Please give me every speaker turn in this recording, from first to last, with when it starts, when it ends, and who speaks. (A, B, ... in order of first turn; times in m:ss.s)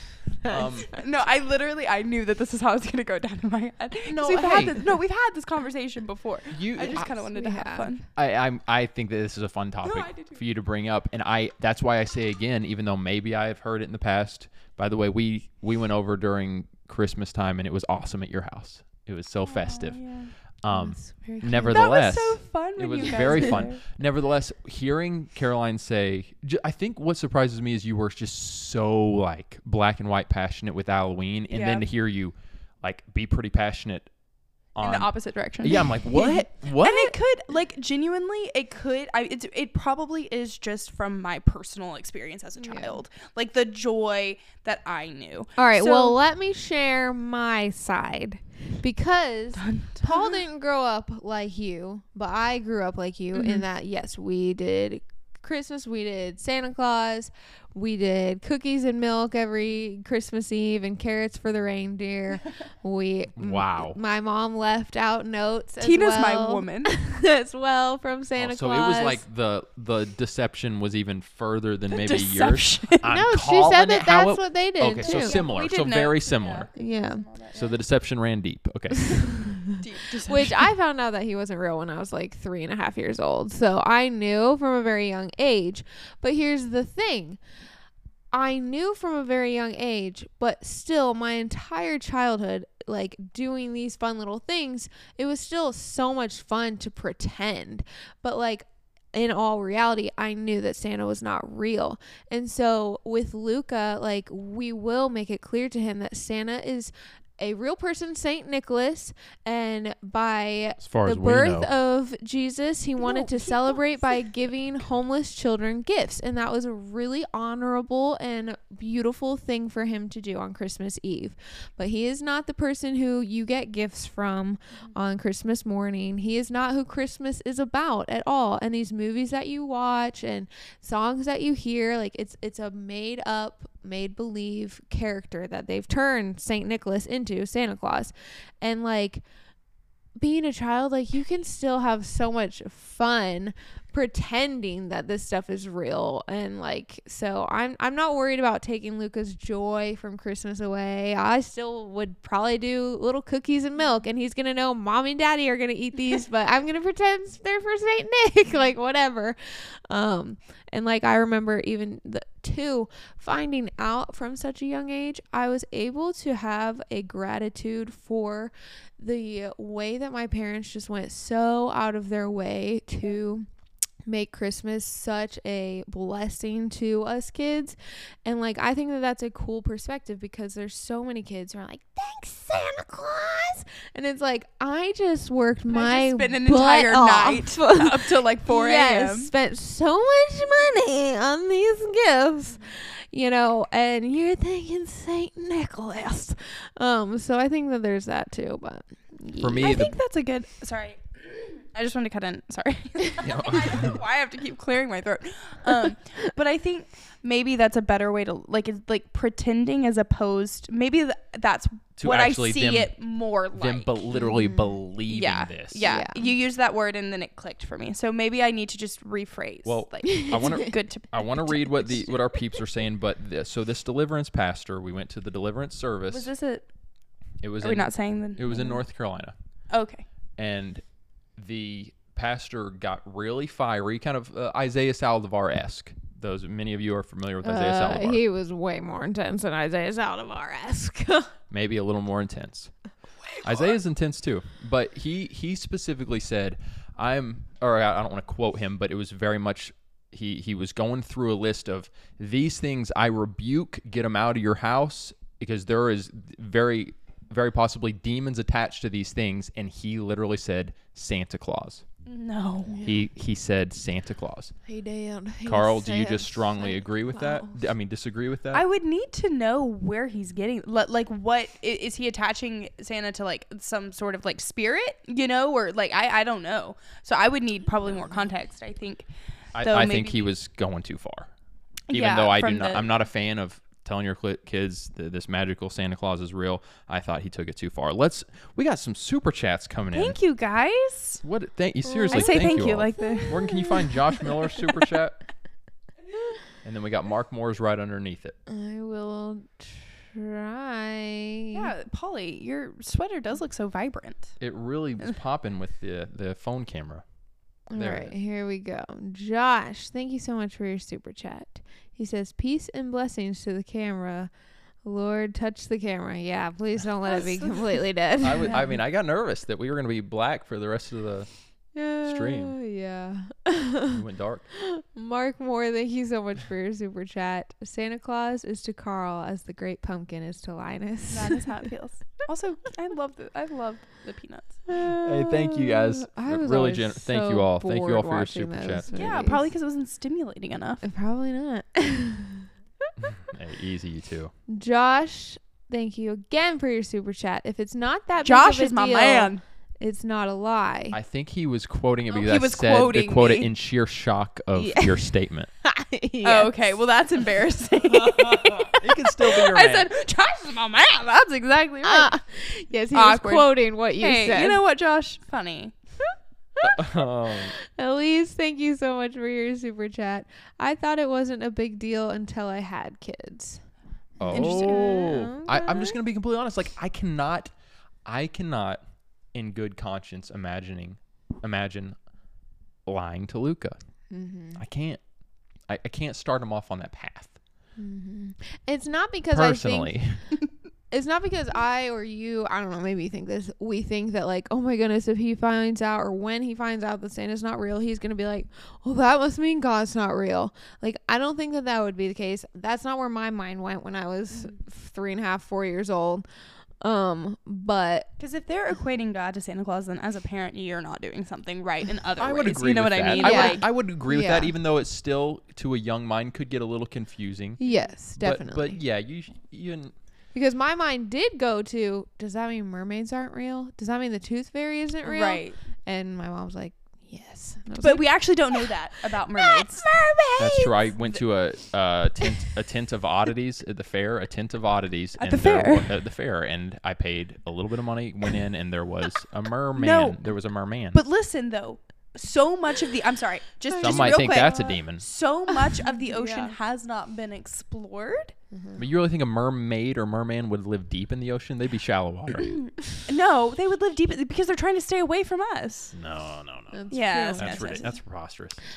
0:00.4-0:00.9 A
0:00.9-0:08.0 B
0:04.1-0:04.8 A
0:06.5-0:07.1 A
0:07.1-0:07.9 C
0:08.2-0:20.0 A
0:09.8-0:10.4 B
0:19.4-0:20.3 B
0:20.6-0:34.1 A
0:20.7-0:21.9 C
0:21.7-0:23.8 B
0:31.5-0:31.8 B
0:34.7-0:35.1 A
0:34.8-0:46.2 B
0:35.6-0:37.1 A
0:42.6-0:43.0 C
0:45.6-1:09.2 C
0:49.6-0:50.4 B
0:53.3-0:53.6 B
1:03.4-1:04.0 A
1:05.8-1:07.0 B
1:08.4-1:16.7 A
1:11.9-1:13.0 B
1:13.0-1:15.4 C
1:15.0-1:17.7 B
1:16.7-1:17.2 C
1:17.5-1:19.4 A
1:19.2-1:27.4 C
1:19.8-1:20.6 B
1:28.3-2:19.2 C
1:50.8-1:51.7 A
1:53.0-1:54.1 B
2:20.2-2:53.5 C
2:54.0-3:19.8 C
3:05.7-3:09.3 B
3:19.4-3:20.0 A
3:19.6-3:34.2 B
3:23.2-3:24.0 A
3:32.0-3:32.9 A
3:33.6-3:35.9 A
3:34.2-3:34.6 C
3:35.1-3:42.1 B
3:35.8-3:36.2 C
3:39.6-3:46.3 A
3:46.1-3:46.6 B
3:47.4-3:49.3 A
3:47.6-3:48.8 B
3:49.7-3:50.0 B
3:50.4-3:50.8 A
3:51.4-3:58.2 A
3:57.4-4:01.3 C
4:01.5-4:02.7 A
4:03.4-4:21.8 A
4:22.0-4:22.8 B
4:22.7-4:23.0 C
4:22.8-4:24.5 A
4:24.6-4:27.6 C
4:25.4-4:28.6 A
4:28.5-4:39.1 B
4:39.5-4:41.3 A
4:39.6-4:40.3 B
4:41.9-4:42.9 B
4:41.9-4:50.2 A
4:49.9-4:51.2 B
4:51.2-4:55.2 A
4:51.9-4:53.7 C
4:52.1-4:53.9 B
4:56.6-4:58.4 A
4:58.5-5:01.7 C
5:01.5-5:04.3 B
5:04.4-5:07.0 A
5:07.7-5:14.3 C
5:07.7-5:08.1 A
5:14.8-5:18.8 C
5:17.1-5:17.8 B
5:18.2-5:21.3 A
5:21.7-5:24.0 C
5:22.0-5:22.6 A
5:23.9-5:24.4 A
5:24.6-5:31.4 C
5:31.1-5:34.6 B
5:34.7-5:39.4 C
5:34.7-5:39.0 A
5:38.9-5:40.8 B
5:40.8-5:42.5 C
5:43.0-5:44.3 A
5:44.5-5:51.0 C
5:48.2-5:49.4 B
5:50.9-5:55.5 A
5:52.1-5:53.5 B
5:54.5-5:55.1 C
5:55.6-5:56.5 C
5:56.2-6:02.1 B
5:58.2-5:59.9 A
6:01.8-6:04.6 C
6:02.9-6:05.7 B
6:06.6-6:07.5 A
6:07.6-6:13.6 C
6:14.2-6:16.0 C
6:14.2-6:17.5 A
6:14.3-6:15.1 B
6:18.0-6:18.8 A
6:19.3-6:22.0 A
6:22.9-6:23.8 A
6:24.1-6:24.6 C
6:24.6-6:25.0 A
6:25.7-6:27.3 A
6:27.8-6:30.0 C
6:29.3-6:30.2 A
6:30.9-6:46.2 C
6:46.8-6:48.1 C
6:48.2-6:53.6 B
6:52.2-6:57.6 A
6:53.1-6:54.5 C
6:57.6-6:58.8 C
6:58.2-6:59.9 A
7:00.3-7:08.7 C
7:05.0-7:05.6 B
7:07.8-7:10.7 B
7:09.4-7:10.1 C
7:10.4-7:21.0 A
7:15.2-7:15.9 B
7:19.8-7:20.2 B
7:20.9-7:28.3 B
7:23.7-7:24.6 C
7:23.8-7:25.0 A
7:25.7-7:26.6 C
7:28.5-7:28.8 C
7:28.8-7:32.6 A
7:32.5-7:35.9 B
7:35.9-7:38.6 A
7:36.7-7:37.9 C
7:36.9-7:38.0 B